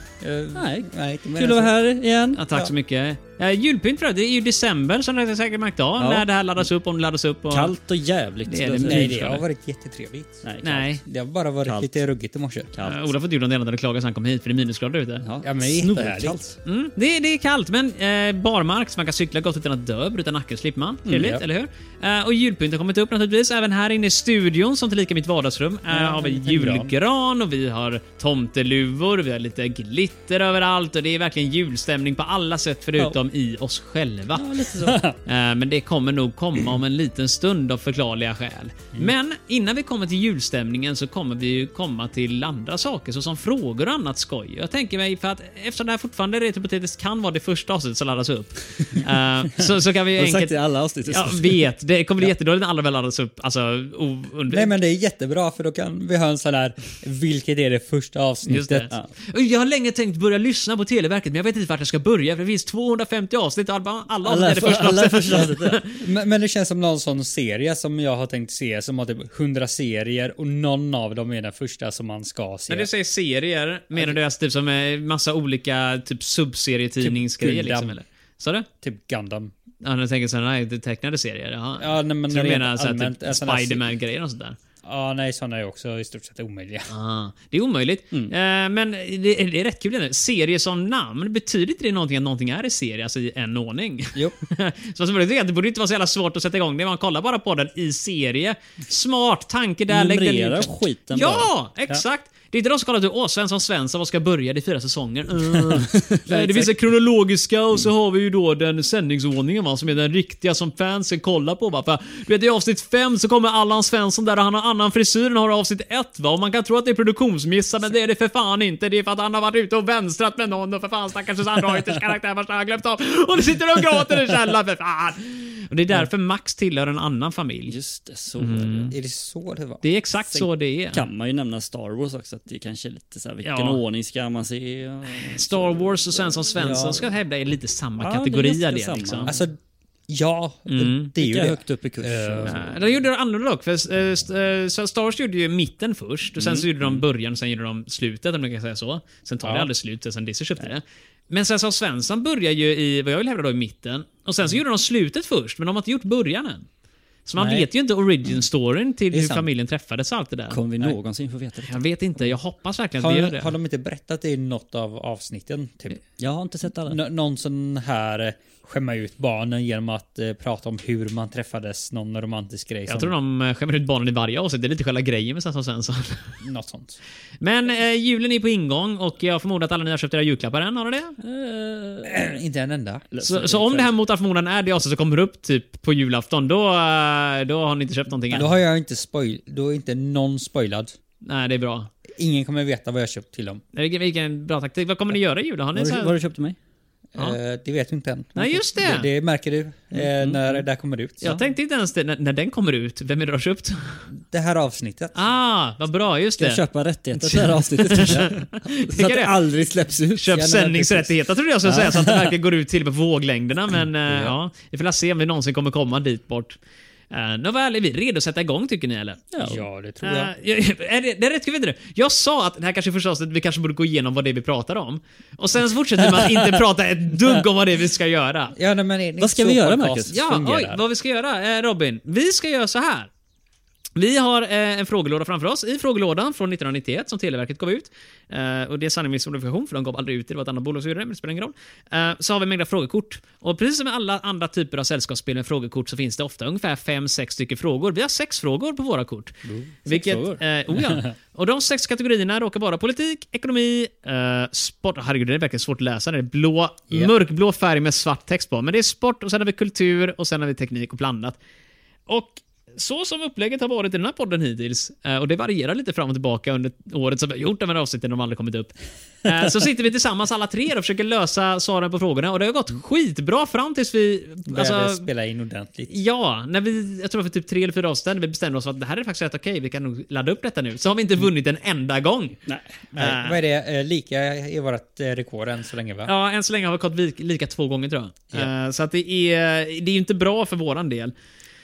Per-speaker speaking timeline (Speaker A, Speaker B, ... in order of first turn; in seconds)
Speaker A: 0.2-1.7, 8.8-12.7, 15.4-16.4, 21.1-21.4, 25.9-26.9, 34.8-35.2, 54.5-58.9, 66.0-72.9, 77.0-77.9, 78.8-79.5, 81.8-83.8, 84.8-86.9, 128.9-129.8, 136.6-137.1, 139.2-139.6, 140.1-142.6, 149.4-149.7, 157.4-157.7, 159.1-159.5, 163.0-166.0, 166.9-173.1, 176.4-177.0, 182.0-183.0, 188.3-190.9, 192.2-193.6, 197.1-201.4, 204.2-205.2, 210.3-211.1, 211.7-212.2, 214.1-214.3, 219.4-220.3, 228.5-230.8, 274.5-275.9, 282.9-286.1
Speaker B: 0.5-2.4, 6.0-6.2, 7.5-9.3, 10.4-10.9, 11.6-11.9, 12.7-13.1, 15.2-16.6, 21.1-21.4, 34.3-35.0, 50.2-51.6, 64.2-65.8, 99.9-101.5, 105.7-106.2, 127.7-128.9, 130.3-136.0, 138.0-139.4, 141.2-142.7, 160.5-161.8, 166.2-167.0, 181.2-182.4, 183.1-183.9, 195.7-196.6, 199.9-200.6, 206.4-210.4, 219.3-219.6, 229.2-230.2, 249.8-250.4
Speaker C: 2.3-7.7, 8.5-9.4, 10.6-11.0, 12.8-15.2, 16.6-34.5, 35.2-54.7, 58.5-66.0, 72.7-78.7, 79.8-84.6, 86.9-127.7, 128.4-128.9, 129.8-131.1, 133.4-133.8, 135.1-139.3, 140.7-141.1, 142.4-156.7, 157.2-160.6, 161.7-163.5, 172.9-176.3, 177.4-181.2, 183.2-188.5, 191.2-191.9, 193.7-196.2, 198.3-199.1, 201.2-204.0, 205.1-206.6, 207.2-209.3, 210.2-216.6, 217.1-219.3, 220.0-228.5, 230.1-233.1, 233.9-261.4, 262.1-275.1, 275.9-282.4, 282.9-283.4, 286.1-291.1